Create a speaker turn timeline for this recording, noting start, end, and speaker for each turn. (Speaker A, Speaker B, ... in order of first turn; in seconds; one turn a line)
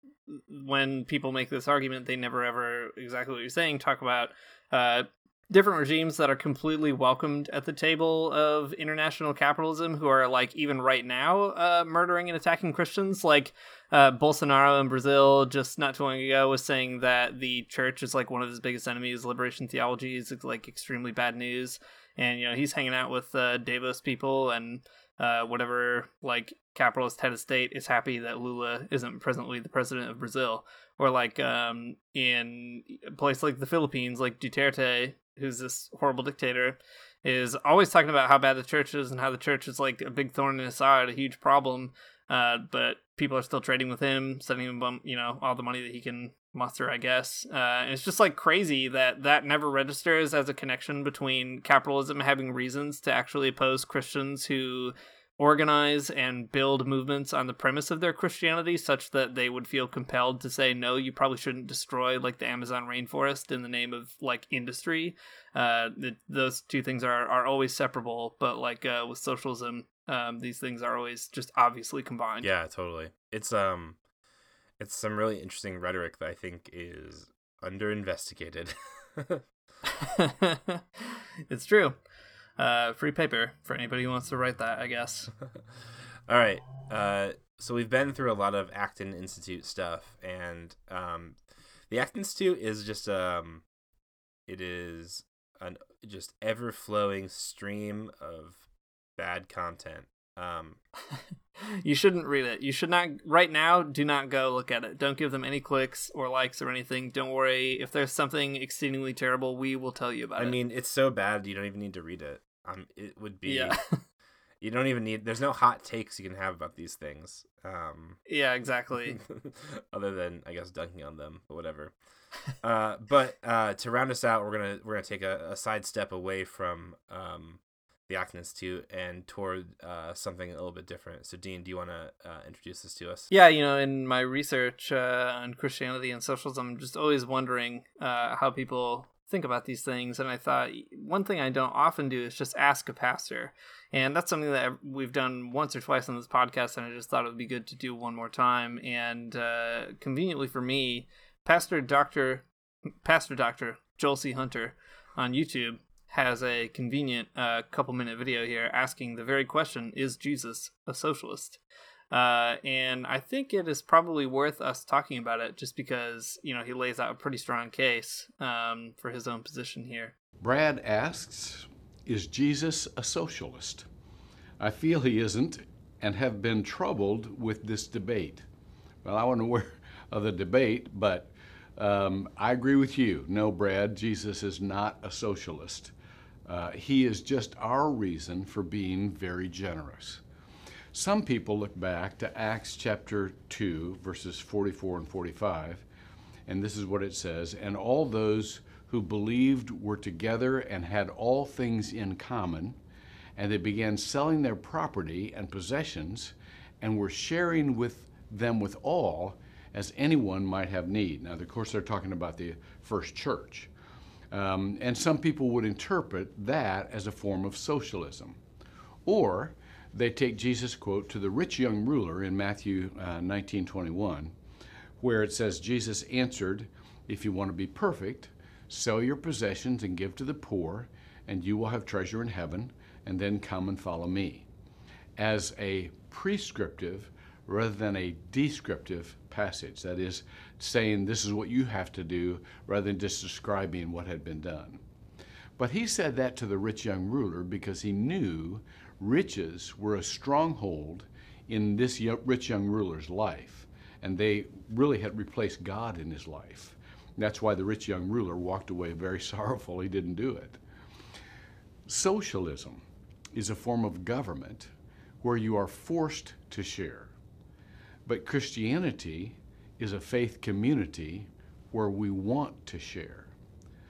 Speaker A: 0.3-72.5
Speaker B: 72.4-74.0
Speaker B: 74.8-79.4
Speaker A: 79.9-81.9
Speaker A: 82.6-85.3
Speaker B: 86.3-91.4
Speaker B: 91.9-93.6
Speaker B: 94.5-98.7
Speaker B: 99.2-100.8
Speaker A: 101.8-110.6
Speaker B: 110.4-113.8
Speaker A: 113.4-113.8
Speaker B: 114.6-118.2
Speaker A: 118.3-119.2
Speaker B: 119.1-121.9
Speaker B: 122.6-133.3
Speaker A: 133.3-152.4
Speaker A: 153.0-161.6
Speaker A: 162.1-170.1
Speaker C: 170.4-173.9
Speaker C: 174.6-178.4
Speaker C: 179.0-185.9
Speaker C: 186.4-190.2
Speaker C: 190.9-195.8
Speaker C: 196.5-202.8
Speaker C: 203.3-213.7
Speaker C: 214.3-218.4
Speaker C: 219.0-224.3
Speaker C: 225.0-234.5
Speaker C: 235.2-244.8
Speaker C: 245.6-260.6
Speaker C: 261.9-267.1
Speaker C: 268.0-273.3